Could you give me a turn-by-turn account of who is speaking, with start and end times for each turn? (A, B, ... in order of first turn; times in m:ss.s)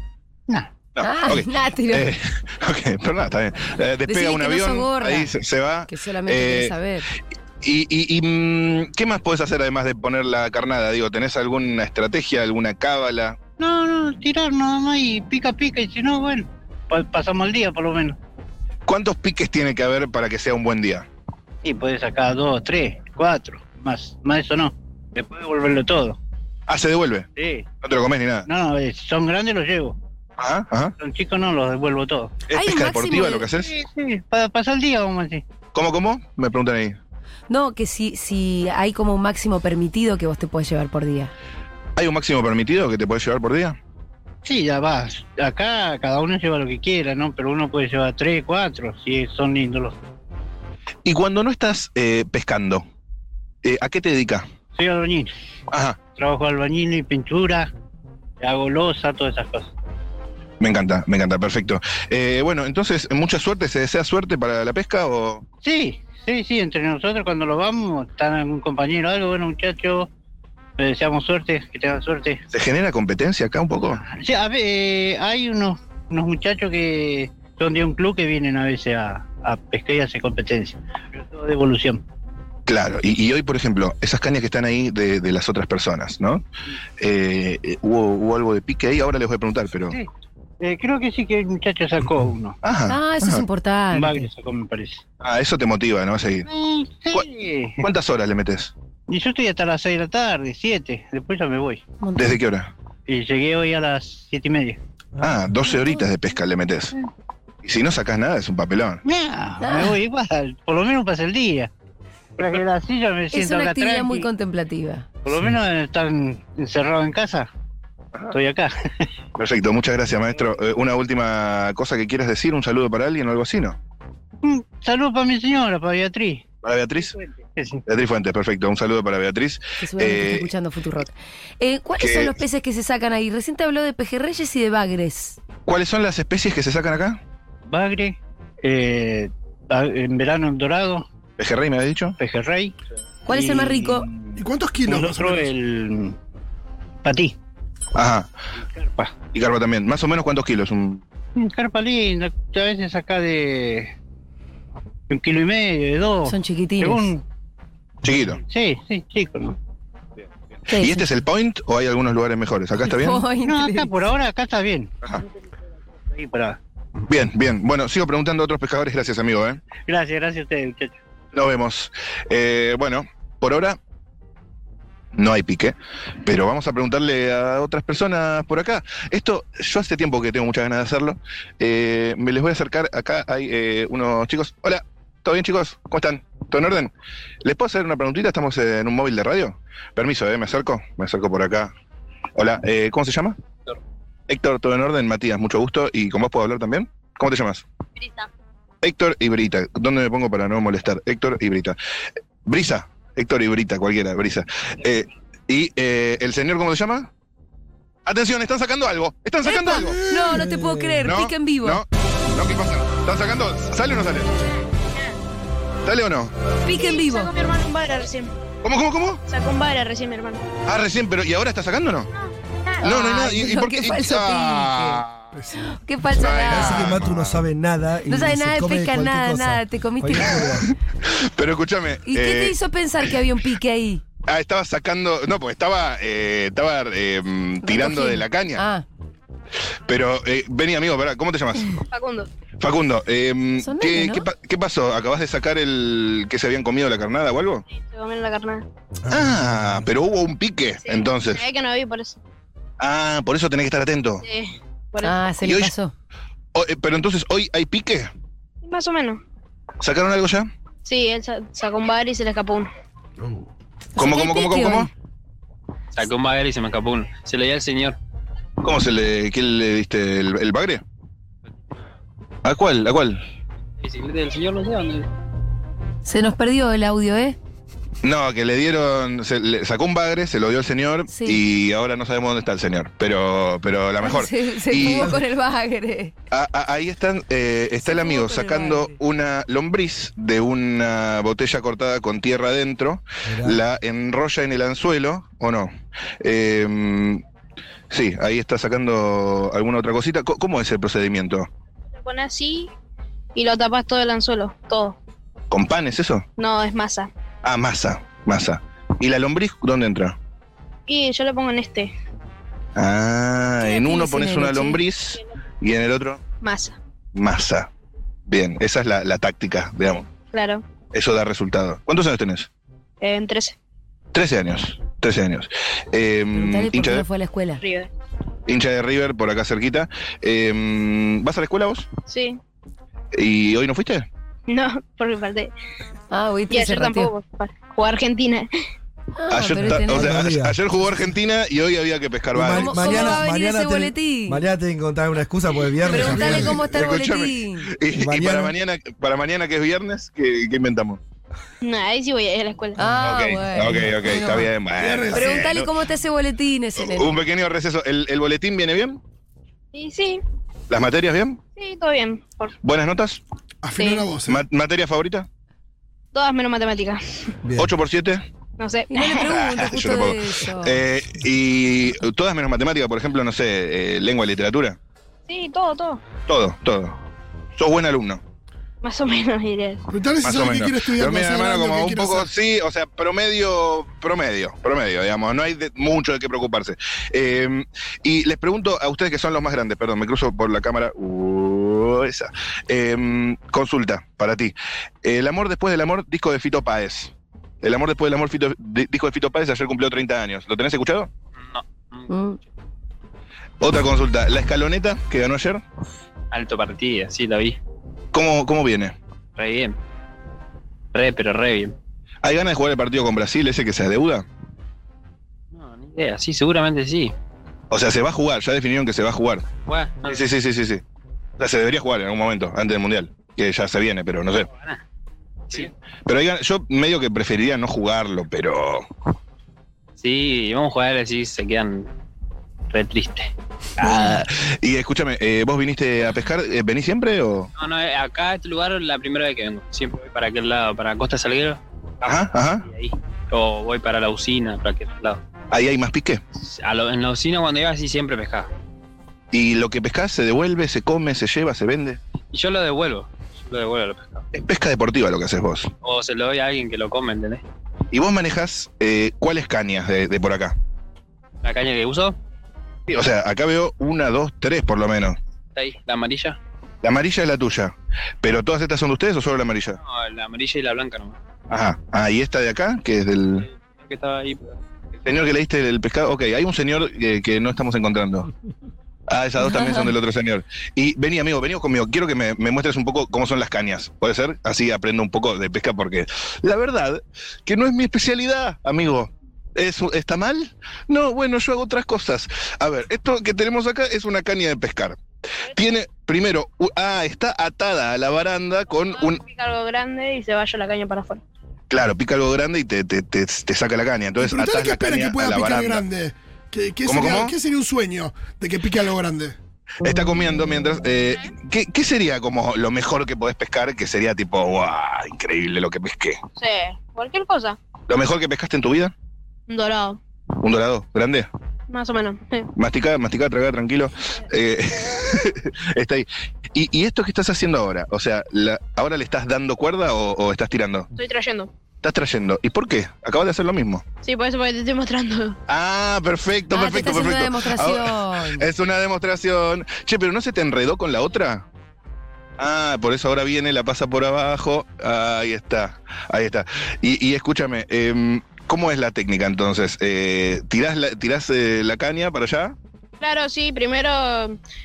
0:00.9-0:06.7 A
0:01.0-0:02.1 B
0:04.1-0:05.3 B
0:05.9-0:07.1 B
0:07.6-0:13.4 A
0:13.6-0:18.2 C
0:18.9-0:21.1 A
0:21.6-0:26.2 C
0:26.7-0:27.3 A
0:27.4-0:27.7 C
0:27.8-0:28.5 A
0:28.5-0:30.0 C
0:30.4-0:30.9 A
0:31.0-0:32.4 C
0:32.5-0:33.7 A
0:32.5-0:33.5 B
0:33.5-0:35.4 C
0:35.7-0:37.0 A
0:37.5-0:41.3 B
0:42.0-0:43.8 A
0:44.4-0:50.0 C
0:51.0-0:52.8 A
0:53.6-0:54.5 A
0:54.8-0:55.3 C
0:55.7-0:56.0 A
0:56.2-0:57.7 C
0:58.4-0:59.7 C
1:00.6-1:05.4 A
1:05.6-1:10.1 C
1:10.8-1:12.4 C
1:12.5-1:14.0 A
1:13.9-1:22.0 C
1:22.7-1:26.4 A
1:27.0-1:30.0 A
1:30.6-1:32.6 C
1:32.6-1:33.5 A
1:32.9-1:34.3 B
1:33.9-1:35.0 C
1:35.2-1:36.5 A
1:36.4-1:37.9 C
1:37.8-1:38.7 A
1:39.1-1:41.8 C
1:42.0-1:42.4 B
1:42.2-1:42.7 A
1:43.1-1:44.8 C
1:45.2-1:46.9 A
1:47.6-1:49.0 A
1:49.0-1:51.7 C
1:49.6-1:50.0 B
1:52.4-1:54.3 C
1:53.3-1:55.1 B
1:55.2-1:57.5 C
1:58.3-1:59.1 C
1:59.4-2:03.8 A
2:04.4-2:06.4 C
2:06.6-2:07.2 A
2:07.3-2:07.8 C
2:07.9-2:10.5 A
2:09.8-2:15.4 B
2:12.0-2:12.4 A
2:15.7-2:17.2 A
2:17.7-2:21.1 C
2:21.4-2:22.2 A
2:22.2-2:22.8 C
2:23.3-2:24.1 B
2:23.3-2:26.2 C
2:24.4-2:25.5 D
2:27.0-2:27.4 C
2:28.0-2:28.3 A
2:28.7-2:29.2 C
2:29.3-2:31.0 A
2:31.4-2:33.9 C
2:35.1-2:37.2 C
2:36.2-2:37.1 B
2:38.0-2:38.4 A
2:38.1-2:39.6 C
2:40.7-2:41.1 B
2:40.7-2:43.3 A
2:42.8-2:44.0 B
2:43.3-2:44.9 C
2:46.1-2:46.6 C
2:47.1-2:49.6 A
2:49.8-2:51.0 C
2:51.3-2:53.8 A
2:55.2-3:06.9 A
3:07.4-3:11.7 A
3:12.4-3:13.4 A
3:14.3-3:17.6 A
3:18.0-3:18.3 E
3:18.8-3:21.8 A
3:22.4-3:27.1 A
3:28.0-3:30.0 A
3:29.4-3:31.8 B
3:29.9-3:31.0 F
3:31.0-3:34.4 A
3:35.8-3:36.3 A
3:36.7-3:37.3 B
3:36.7-3:38.3 E
3:38.6-3:39.2 A
3:39.3-3:40.4 E
3:40.7-3:42.1 A
3:42.8-3:46.9 B
3:42.8-3:45.4 A
3:46.1-3:47.4 A
3:46.5-3:50.7 F
3:48.1-3:50.7 B
3:50.6-3:52.6 A
3:52.1-3:54.0 B
3:54.3-3:58.6 A
3:57.6-3:58.9 B
3:59.9-4:01.8 A
4:01.9-4:02.3 E
4:02.6-4:07.6 A
4:03.6-4:04.3 B
4:07.7-4:08.7 E
4:09.0-4:09.9 F
4:09.1-4:11.4 A
4:10.8-4:12.2 E
4:12.8-4:14.2 A
4:14.2-4:15.2 E
4:15.0-4:15.9 B
4:15.4-4:15.7 A
4:16.5-4:18.1 A
4:18.6-4:19.2 E
4:19.8-4:20.5 A
4:20.8-4:22.7 E
4:24.0-4:24.9 B
4:24.0-4:24.9 A
4:26.0-4:28.0 G
4:28.6-4:30.8 A
4:32.4-4:33.2 A
4:33.8-4:35.1 G
4:36.0-4:37.4 B
4:38.0-4:45.2 A
4:41.1-4:41.4 B
4:44.0-4:46.1 B
4:46.3-4:57.2 A
4:47.8-4:49.0 B
4:53.2-4:53.6 F
4:57.9-5:01.5 A
5:02.0-5:02.7 E
5:03.4-5:05.0 E
5:05.5-5:06.3 A
5:06.4-5:07.1 E
5:07.4-5:10.2 A
5:10.9-5:11.9 E
5:12.8-5:16.2 A
5:13.6-5:14.8 B
5:16.4-5:16.8 E
5:17.2-5:17.7 A
5:18.3-5:20.1 A
5:20.2-5:20.7 E
5:20.9-5:22.5 A
5:23.0-5:23.6 E
5:24.1-5:27.1 A
5:26.3-5:27.6 B
5:27.6-5:27.9 E
5:28.5-5:31.9 A
5:32.1-5:32.4 E
5:33.1-5:34.1 A
5:34.5-5:35.5 E
5:36.1-5:37.1 B
5:36.5-5:38.5 E
5:39.2-5:40.2 B
5:39.3-5:43.2 A
5:39.6-5:40.6 F
5:42.3-5:46.6 F
5:42.5-5:44.4 B
5:45.9-5:47.7 B
5:45.9-5:46.6 D
5:46.0-5:51.0 A
5:48.0-5:48.5 F
5:51.6-5:52.8 E
5:52.8-5:54.5 B
5:53.0-5:55.7 A
5:54.3-5:55.5 D
5:55.1-5:57.2 B
5:56.8-5:59.0 A
5:59.7-6:00.2 E
6:00.7-6:01.4 A
6:01.6-6:02.6 E
6:02.6-6:03.2 A
6:03.6-6:04.4 D
6:03.8-6:04.1 E
6:04.2-6:05.3 A
6:06.1-6:07.3 E
6:07.4-6:07.7 F
6:07.6-6:08.2 A
6:08.6-6:09.3 E
6:08.9-6:10.8 B
6:09.2-6:14.8 A
6:15.3-6:16.1 E
6:16.2-6:17.0 A
6:17.6-6:18.2 A
6:18.8-6:19.8 E
6:19.9-6:22.3 D
6:20.2-6:41.1 A
6:41.4-6:42.1 G
6:42.1-6:42.4 B
6:43.6-6:45.6 A
6:46.3-6:47.6 G
6:48.1-6:49.0 A
6:49.4-6:49.8 G
6:50.9-6:51.8 G
6:52.2-6:54.3 A
6:55.5-6:57.1 G
6:57.7-6:59.5 A
6:59.7-7:00.3 G
7:00.0-7:00.8 A
7:01.4-7:04.5 A
7:04.5-7:04.8 G
7:06.1-7:08.9 A
7:10.0-7:11.9 G
7:12.7-7:13.3 G
7:13.8-7:17.5 A
7:17.6-7:21.6 G
7:22.0-7:22.7 A
7:22.7-7:25.2 G
7:25.5-7:26.2 A
7:26.4-7:28.5 G
7:29.3-7:32.0 A
7:32.3-7:34.3 G
7:34.3-7:35.7 A
7:35.8-7:37.4 G
7:37.9-7:40.6 A
7:41.4-7:42.2 G
7:42.9-7:45.2 A
7:45.6-7:46.4 G
7:46.8-7:49.8 A
7:49.8-7:51.2 G
7:51.5-7:53.5 A
7:53.6-7:54.5 G
7:55.0-7:58.3 A
7:59.1-8:19.2 A
7:59.5-7:59.9 B
8:18.9-8:21.2 E
8:21.7-8:25.8 A
8:24.2-8:29.4 D
8:26.9-8:27.4 A
8:29.8-8:36.2 A
8:36.4-8:37.6 E
8:37.9-8:38.9 A
8:39.5-8:40.0 E
8:40.4-8:41.3 A
8:41.7-8:42.5 E
8:42.6-8:50.9 A
8:51.0-8:51.5 E
8:51.8-8:53.8 A
8:54.0-8:55.4 E
8:55.5-9:01.5 A
8:56.5-8:58.5 B
9:02.4-9:12.6 A
9:13.0-9:14.4 E